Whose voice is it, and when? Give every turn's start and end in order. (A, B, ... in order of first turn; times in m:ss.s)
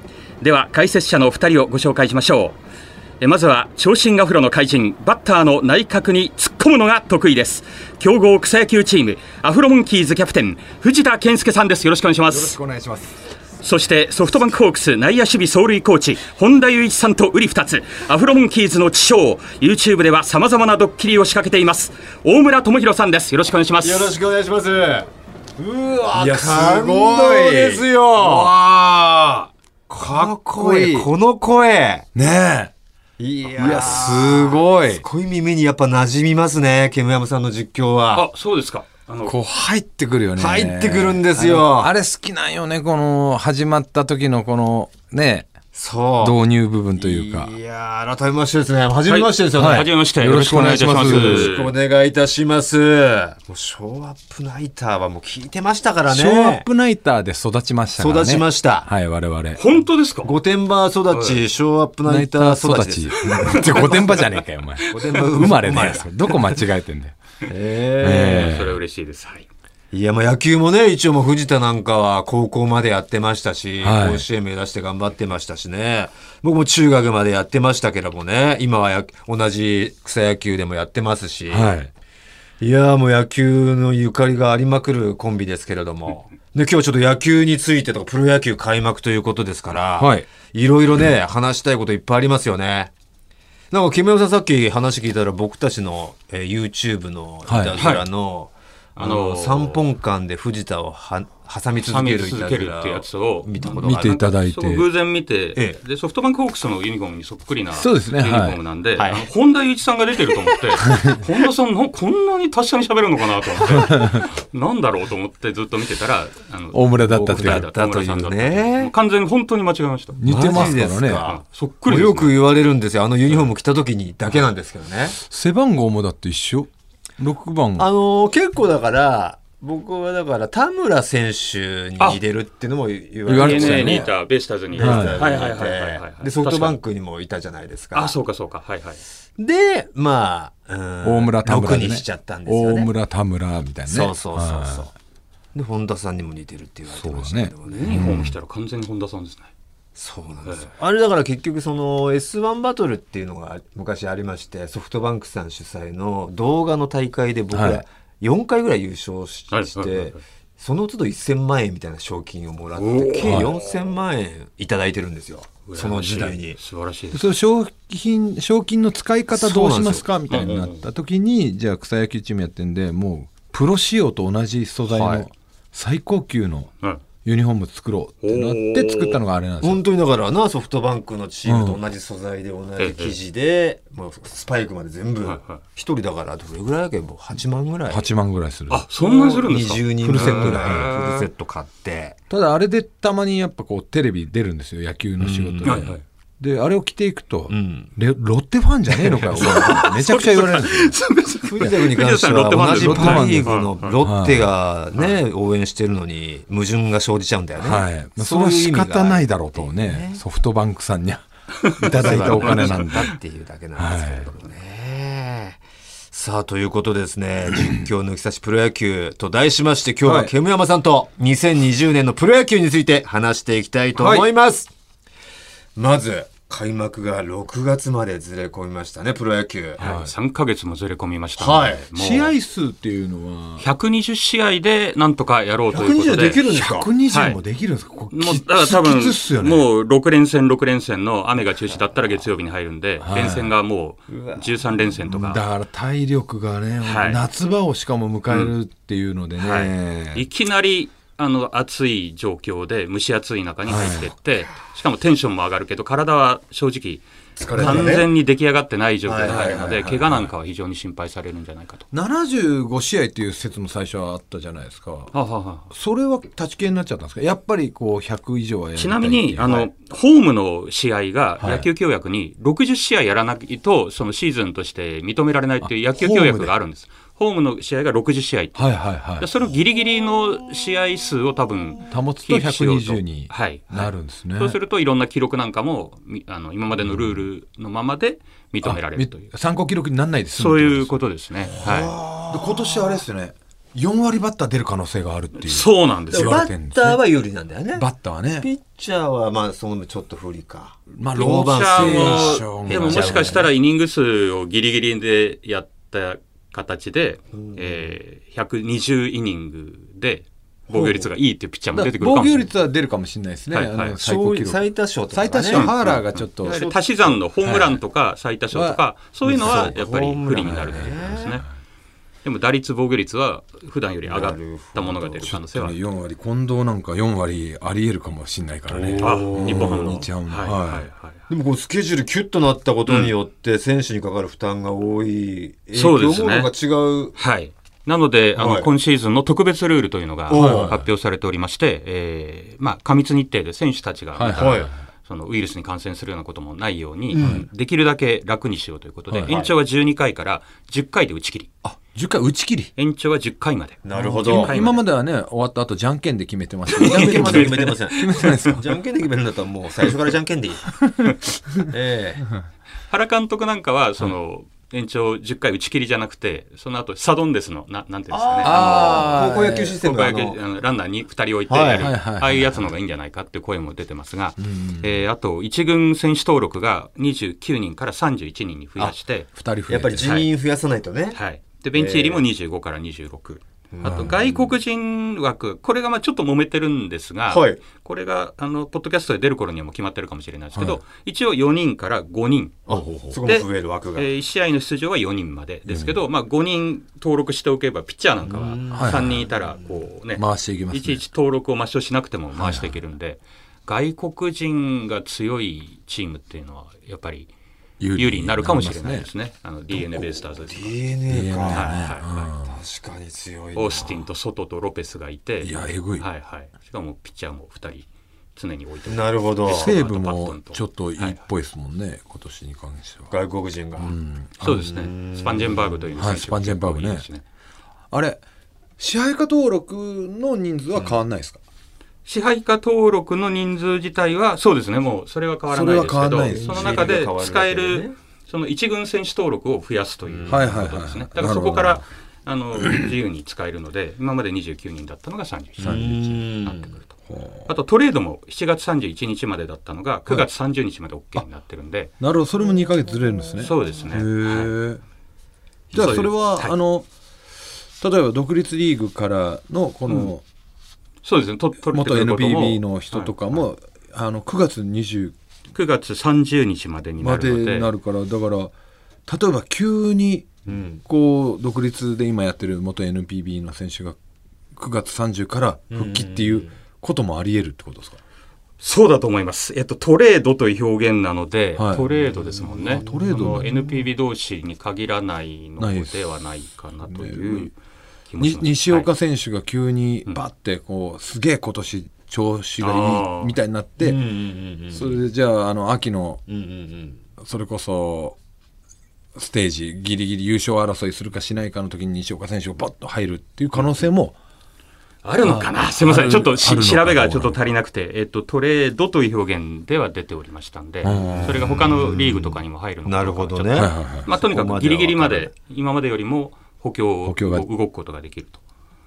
0:00.4-0:02.6 A
0:03.2-0:12.6 A
0:12.3-0:13.1 B
0:13.6-0:24.1 A
0:23.8-0:32.1 C
0:26.1-0:29.4 B
0:30.0-0:31.1 B
0:32.2-0:32.7 B
0:33.2-0:38.3 C
0:33.6-0:35.0 B
0:38.1-0:39.4 A
0:39.2-0:45.5 B
0:40.4-0:41.9 C
0:45.7-0:46.4 C
0:46.2-0:47.5 B
0:47.0-0:56.7 C
0:49.1-0:51.7 A
0:49.6-0:51.5 B
0:56.1-0:59.6 B
0:58.0-0:58.9 C
0:59.6-1:00.4 A
1:00.2-1:04.3 C
1:01.1-1:01.4 A
1:02.1-1:07.2 B
1:03.5-1:04.3 A
1:04.9-1:05.2 A
1:04.9-1:06.6 C
1:07.5-1:08.6 C
1:08.0-1:08.8 B
1:08.0-1:09.5 A
1:09.9-1:21.7 C
1:13.8-1:14.2 B
1:21.5-1:21.9 B
1:22.6-1:32.9 C
1:30.0-1:30.3 B
1:33.7-1:44.2 C
1:37.5-1:37.8 B
1:37.8-1:38.1 A
1:39.0-1:39.8 A
1:41.8-2:02.4 A
1:43.7-1:44.8 B
1:47.8-1:48.6 B
1:49.0-1:49.3 C
1:50.8-1:51.2 B
1:53.9-1:54.2 B
1:56.7-1:57.7 B
1:57.3-1:58.9 C
2:00.2-2:01.3 B
2:00.3-2:05.2 C
2:05.2-2:07.9 B
2:07.8-2:18.2 C
2:13.3-2:14.1 B
2:13.3-2:16.8 A
2:14.8-2:15.2 B
2:17.9-2:19.0 A
2:19.4-2:22.9 C
2:21.0-2:24.9 B
2:23.9-2:24.9 C
2:25.5-2:28.1 C
2:26.9-2:28.4 B
2:27.7-2:29.5 A
2:30.0-2:46.6 C
2:37.5-2:37.8 B
2:39.5-2:40.2 A
2:42.8-2:43.6 A
2:43.2-2:43.5 B
2:45.7-2:47.3 A
2:47.1-2:56.7 B
2:49.3-2:50.1 C
2:50.3-2:50.9 A
2:54.9-2:55.2 A
2:57.2-2:59.8 B
2:58.2-2:59.2 A
2:59.6-3:08.1 C
3:01.5-3:01.8 B
3:02.8-3:03.2 A
3:05.2-3:05.6 A
3:07.9-3:08.9 B
3:08.7-3:11.3 A
3:09.0-3:12.2 C
3:10.0-3:10.9 B
3:12.3-3:21.0 B
3:15.2-3:15.9 C
3:15.6-3:16.0 A
3:17.5-3:17.9 C
3:19.0-3:19.9 C
3:19.1-3:24.0 A
3:21.4-3:30.2 C
3:22.7-3:24.5 B
3:27.6-3:33.1 B
3:31.6-3:33.1 A
3:31.9-3:35.6 C
3:33.8-3:34.3 B
3:36.1-3:44.7 C
3:40.0-3:40.3 B
3:44.0-3:44.3 B
3:45.8-3:49.9 C
3:49.8-3:52.3 A
3:49.8-3:50.1 B
3:51.4-3:51.8 C
3:52.0-3:53.7 B
3:53.6-3:56.4 A
3:55.7-3:56.9 C
3:56.5-3:59.7 B
3:57.1-3:57.4 A
3:58.1-4:05.4 A
4:03.0-4:03.5 B
4:04.1-4:05.2 C
4:05.2-4:10.3 B
4:06.8-4:07.2 A
4:09.4-4:17.0 A
4:13.7-4:14.1 B
4:17.4-4:18.0 B
4:17.5-4:18.1 C
4:17.6-4:21.9 A
4:19.1-4:19.8 C
4:19.2-4:20.3 B
4:21.9-4:25.1 B
4:25.1-4:25.7 A
4:25.7-4:29.6 B
4:28.8-4:49.3 A
4:29.4-4:29.7 C
4:31.4-4:31.7 B
4:35.6-4:36.5 B
4:38.6-4:39.3 B
4:41.9-4:44.6 B
4:46.8-4:47.2 B
4:48.6-4:50.9 B
4:50.4-4:52.0 A
4:51.6-4:53.0 C
4:52.3-4:57.0 B
4:55.4-4:56.4 A
4:56.1-4:57.8 C
4:57.8-4:58.5 B
4:58.4-5:03.5 C
5:01.0-5:03.4 B
5:01.2-5:12.5 A
5:07.3-5:08.0 C
5:10.7-5:11.0 C
5:11.7-5:16.6 B
5:13.5-5:14.0 A
5:14.0-5:16.8 C
5:15.5-5:21.4 A
5:17.4-5:17.8 B
5:18.5-5:18.8 B
5:19.3-5:21.4 C
5:19.3-5:19.7 B
5:20.4-5:21.4 B
5:22.2-5:25.8 A
5:24.0-5:25.3 C
5:25.2-5:30.9 B
5:28.7-5:30.0 C
5:29.0-5:31.2 A
5:31.3-5:37.2 C
5:32.9-5:33.1 A
5:35.7-5:36.5 A
5:37.2-5:51.5 A
5:38.4-5:38.7 C
5:40.3-5:40.8 C
5:40.3-5:40.9 B
5:44.2-5:44.7 B
5:44.4-5:44.7 C
5:47.1-5:47.5 C
5:47.2-5:47.5 B
5:49.1-5:49.4 B
5:49.3-5:49.6 C
5:51.6-5:52.7 B
5:52.8-5:54.8 A
5:53.8-5:54.6 C
5:53.9-5:58.7 B
5:56.7-5:58.4 A
5:56.8-6:00.8 C
6:01.6-6:02.3 C
6:02.9-6:19.3 A
6:08.1-6:10.4 C
6:08.4-6:09.7 B
6:11.5-6:11.9 C
6:11.8-6:12.7 B
6:14.4-6:14.9 B
6:19.4-6:20.2 B
6:19.7-6:21.2 C
6:20.0-6:20.3 A
6:21.1-6:47.3 A
6:21.8-6:22.2 C
6:23.7-6:24.6 C
6:23.8-6:24.2 B
6:27.3-6:27.6 C
6:30.5-6:30.8 B
6:32.7-6:34.1 C
6:32.7-6:33.2 B
6:35.7-6:36.0 B
6:38.2-6:39.8 C
6:38.7-6:39.3 B
6:40.2-6:41.0 B
6:42.4-6:42.8 B
6:47.8-6:49.1 B
6:48.0-6:50.8 A
6:49.7-6:54.1 C
6:51.1-6:52.6 B
6:51.5-6:52.3 A
6:53.6-7:01.2 A
6:55.4-6:56.0 B
6:58.9-6:59.7 C
6:59.5-7:03.1 B
7:03.1-7:03.9 C
7:03.8-7:04.7 B
7:04.4-7:07.2 A
7:04.6-7:05.9 C
7:06.0-7:07.1 B
7:07.9-7:08.2 B
7:08.8-7:11.4 B
7:12.1-7:26.9 A
7:15.5-7:17.0 B
7:16.2-7:18.0 C
7:20.1-7:20.5 C
7:20.3-7:21.8 B
7:25.6-7:26.1 B
7:25.6-7:26.8 C
7:27.1-7:27.5 B
7:27.5-7:31.9 A
7:32.0-7:34.8 B
7:33.4-7:34.5 A
7:33.4-7:33.8 C
7:35.7-7:36.9 B
7:35.7-7:36.6 A
7:37.8-7:40.2 B
7:41.0-7:43.4 A
7:41.7-7:45.2 B
7:45.5-7:47.7 A
7:47.0-7:48.5 B
7:49.1-7:54.0 B
7:50.5-7:50.8 C
7:54.6-7:58.0 B
7:55.7-7:56.5 C
7:58.6-8:07.5 A
8:01.6-8:03.5 B
8:02.5-8:03.8 C
8:05.6-8:06.0 B
8:06.8-8:07.5 B
8:08.1-8:08.9 A
8:08.2-8:14.0 B
8:12.6-8:13.4 A
8:13.8-8:15.0 C
8:14.7-8:16.2 B
8:16.3-8:17.0 C
8:17.2-8:18.2 B
8:19.2-8:24.2 B
8:25.0-8:38.4 A
8:25.2-8:27.4 B
8:30.8-8:31.7 B
8:30.9-8:35.3 C
8:33.6-8:34.1 B
8:37.0-8:37.5 B